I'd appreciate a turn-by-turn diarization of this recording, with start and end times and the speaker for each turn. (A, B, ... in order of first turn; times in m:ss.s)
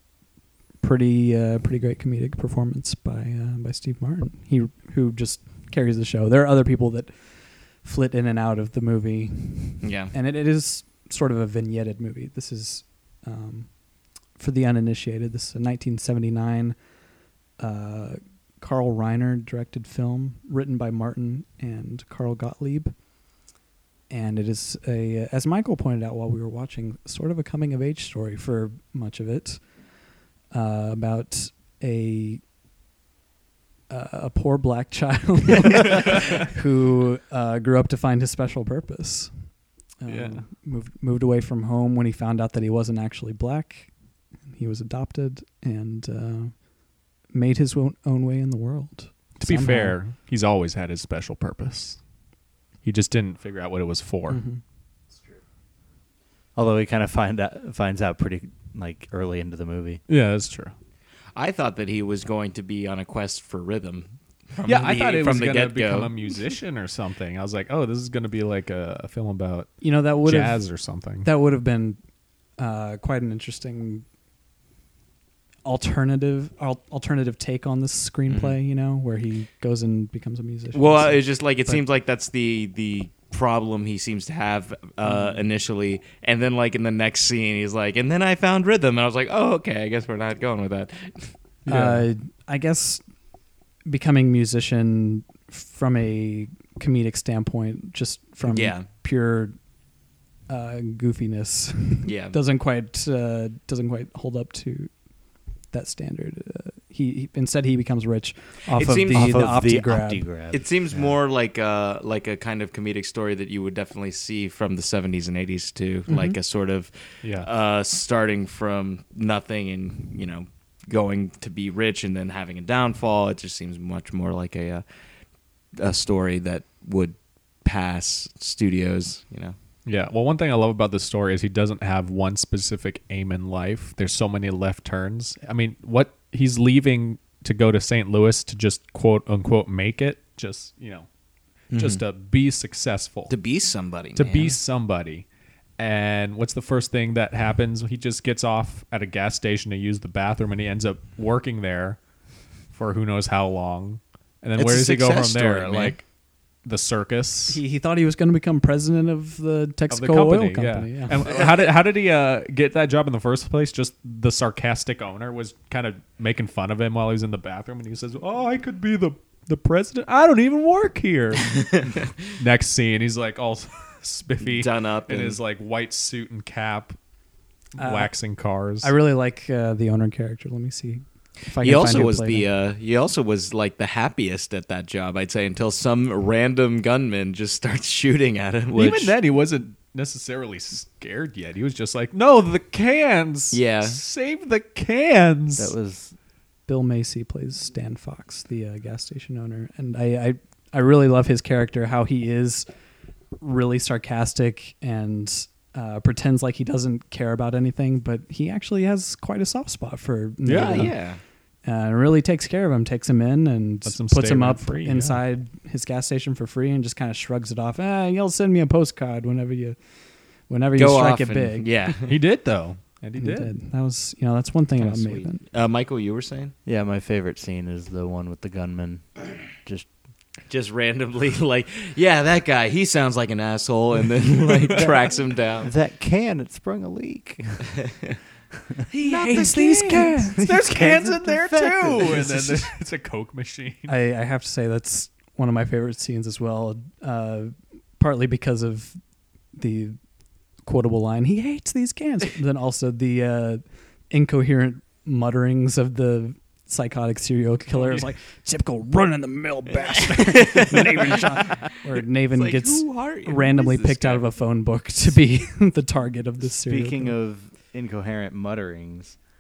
0:00.8-0:13.8 A
0:09.8-0:10.1 B
0:14.3-0:16.8 A
0:17.6-0:22.9 A
0:24.1-0:29.7 A
0:30.5-0:32.4 A
0:33.9-0:39.3 A
0:40.0-0:43.9 A
0:40.1-0:40.5 C
0:44.5-0:46.7 A
0:47.3-0:50.0 A
0:49.4-0:52.0 C
0:52.8-0:54.4 C
0:54.3-0:54.6 A
0:56.6-1:00.0 D
1:00.1-1:00.7 C
1:01.4-1:06.1 B
1:04.6-1:11.3 C
1:09.8-1:10.6 A
1:11.2-1:12.0 A
1:12.6-1:14.0 A
1:15.6-1:21.8 A
1:18.3-1:18.5 B
1:20.7-1:31.3 B
1:25.0-1:25.4 A
1:31.7-1:32.0 C
1:31.7-1:33.0 A
1:33.9-1:39.6 A
1:38.5-1:38.9 B
1:40.5-1:44.9 A
1:42.0-1:42.4 B
1:45.7-1:50.3 A
1:48.7-1:49.5 B
1:49.1-1:51.2 D
1:50.5-2:04.8 B
1:56.1-1:56.4 A
1:57.2-1:57.5 C
2:05.8-2:09.6 B
2:09.9-2:21.1 C
2:21.7-2:22.0 B
2:21.7-2:23.3 C
2:23.3-2:24.6 B
2:24.2-2:25.3 C
2:25.8-2:32.0 C
2:32.7-2:36.0 C
2:34.6-2:36.0 D
2:36.6-2:37.6 C
2:37.5-2:41.3 A
2:39.9-2:51.8 C
2:51.5-2:52.0 B
2:52.3-2:57.0 C
2:54.4-2:55.4 B
2:57.8-2:58.1 A
2:57.8-2:58.9 C
2:58.8-3:02.5 A
3:01.6-3:09.1 B
3:08.7-3:15.7 C
3:08.7-3:09.1 D
3:13.5-3:14.0 B
3:15.6-3:16.2 D
3:16.7-3:22.7 A
3:23.4-3:30.9 A
3:30.4-3:30.9 C
3:30.6-3:31.2 B
3:31.6-3:39.8 A
3:33.9-3:35.2 C
3:40.5-3:41.9 A
3:40.8-3:42.2 B
3:42.1-3:43.5 C
3:43.2-3:45.4 A
3:44.9-3:45.2 D
3:45.4-3:46.5 B
3:46.7-3:49.9 D
3:50.5-3:55.7 B
3:54.6-3:55.1 D
3:55.6-3:57.8 D
3:58.9-4:03.9 C
3:59.1-4:00.1 B
3:59.2-4:00.4 A
4:00.4-4:02.7 D
4:03.9-4:09.0 A
4:09.5-4:10.0 A
4:10.6-4:27.2 A
4:17.7-4:18.0 C
4:19.8-4:21.7 B
4:22.3-4:24.2 B
4:26.6-4:29.2 D